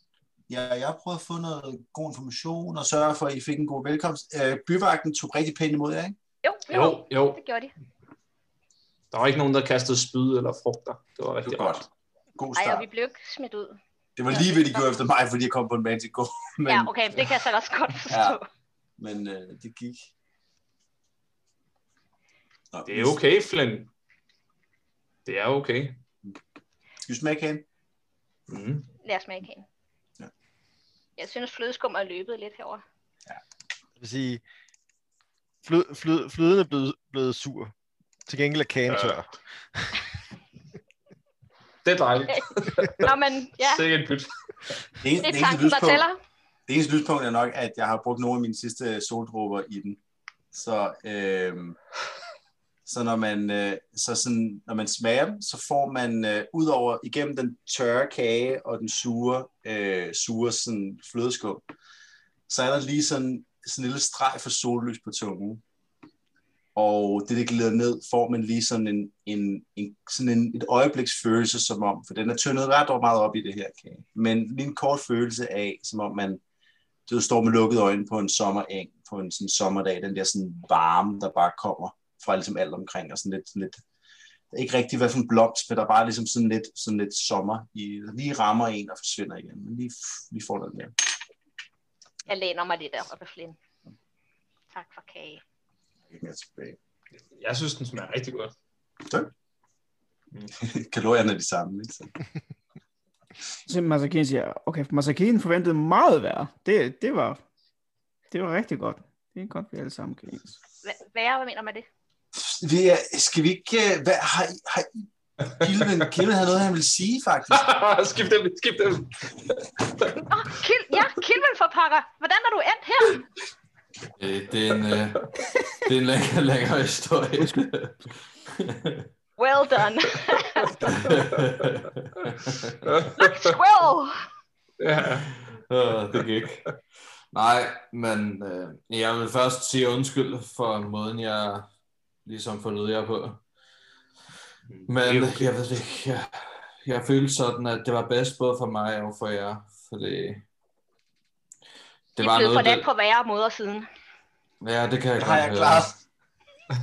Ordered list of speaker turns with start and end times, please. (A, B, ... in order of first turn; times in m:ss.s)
0:00.5-0:06.2 A
0:06.4-0:07.7 B
0:06.7-0:07.4 C
0:09.1-0:11.9 C
0:11.4-0:11.8 A
0:12.3-0:12.8 A
0:12.5-0:13.8 B
0:14.2-0:17.3 A
0:14.3-0:14.8 B
0:16.7-0:18.4 B
0:18.1-0:18.4 A
0:19.0-0:20.1 A
0:22.7-0:23.2 A
0:22.9-0:23.9 C
0:25.2-0:26.0 C
0:27.0-0:27.6 A
0:28.5-0:28.8 C
0:29.0-0:29.6 B
0:31.2-0:32.8 B
0:34.0-0:34.4 D
0:35.6-0:37.7 D
0:38.3-0:40.0 D
0:38.9-0:39.2 C
0:41.8-0:44.7 C
0:42.3-0:43.8 B
0:45.0-0:46.0 A
0:45.2-0:46.2 B
0:46.7-0:50.0 A
0:50.5-0:51.8 A
0:52.8-1:01.6 A
1:02.5-1:05.6 A
1:06.8-1:16.4 A
1:17.1-1:23.8 A
1:24.5-1:30.9 A
1:32.3-1:33.6 B
1:34.7-1:35.4 B
1:36.1-1:36.8 A
1:37.3-1:38.5 C
1:40.6-1:42.1 A
1:43.7-1:47.4 E
1:48.3-1:50.5 E
1:50.8-1:51.8 B
1:52.3-1:57.6 A
1:57.5-2:00.1 C
2:00.1-2:03.2 B
2:04.2-2:09.1 F
2:04.9-2:05.3 C
2:09.4-2:10.7 B
2:10.8-2:11.7 C
2:10.8-2:13.1 F
2:12.8-2:13.5 C
2:13.2-2:14.2 B
2:14.8-2:15.3 C
2:15.0-2:16.6 F
2:17.3-2:21.6 F
2:22.2-2:23.4 F
2:24.7-2:25.4 C
2:24.9-2:30.4 F
2:32.2-2:32.9 F
2:32.2-2:33.9 B
2:34.6-2:35.9 F
2:35.2-2:36.0 A